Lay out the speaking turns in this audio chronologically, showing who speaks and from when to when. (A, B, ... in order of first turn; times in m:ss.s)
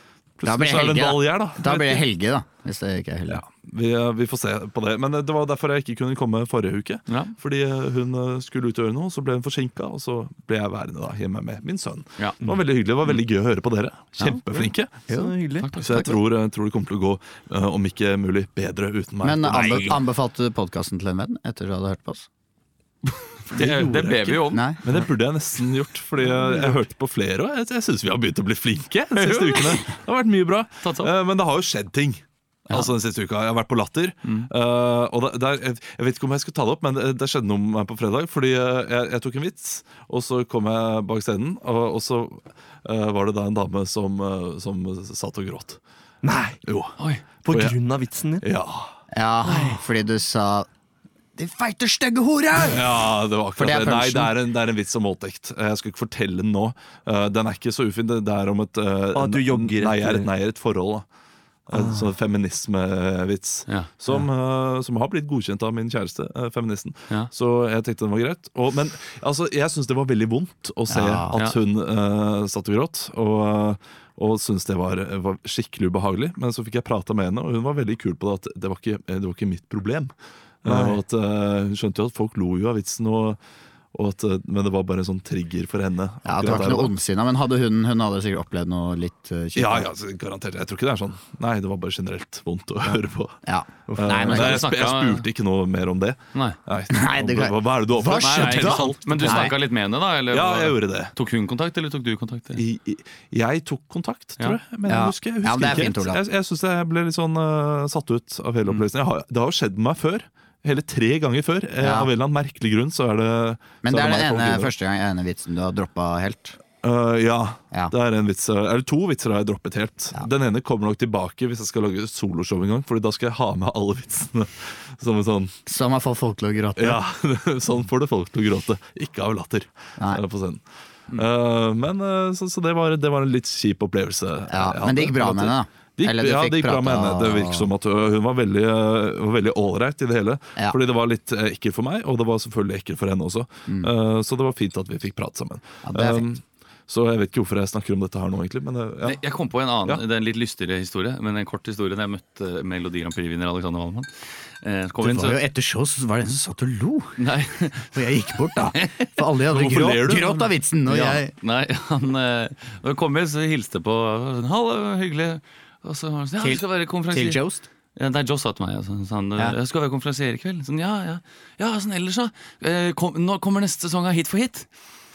0:00.4-0:02.0 A
0:00.4-0:03.4 B
0:03.3-0:15.0 A
0:07.1-0:07.3 C
0:14.5-0:16.0 D
0:15.6-0:16.2 C
0:15.8-0:20.0 A
0:19.2-0:22.3 B
0:19.5-0:20.0 C
0:23.5-0:25.0 C
0:23.5-0:45.8 A
0:24.5-0:24.8 B
0:29.1-0:30.0 C
0:30.8-0:31.1 C
0:46.2-0:46.6 D
0:46.6-0:47.8 A
0:47.5-0:48.4 D
0:48.4-0:48.9 A
0:49.1-0:50.7 B
0:51.4-0:53.0 B
0:52.7-1:01.1 A
0:53.6-0:54.3 B
0:59.1-1:00.3 D
1:01.7-1:23.4 A
1:01.7-1:02.1 D
1:10.9-1:11.3 B
1:20.6-1:21.0 D
1:23.9-1:26.9 A
1:26.2-1:29.9 B
1:29.5-1:33.4 A
1:33.4-1:34.7 B
1:33.9-1:39.5 A
1:34.3-1:35.3 C
1:36.9-1:39.5 B
1:38.2-1:42.6 C
1:40.3-1:41.1 A
1:42.6-1:54.7 A
1:44.9-1:46.2 B
1:51.8-1:52.1 B
1:53.8-1:56.6 B
1:56.8-2:05.5 A
2:05.6-2:07.0 B
2:06.8-2:29.2 A
2:14.5-2:17.7 B
2:25.8-2:26.3 B
2:29.0-2:34.1 C
2:34.6-2:35.4 C
2:35.0-2:37.2 B
2:37.2-2:38.0 C
2:37.9-2:41.3 B
2:38.8-2:39.1 C
2:39.5-2:40.4 A
2:40.9-2:47.4 C
2:46.4-2:47.6 B
2:48.0-2:54.7 C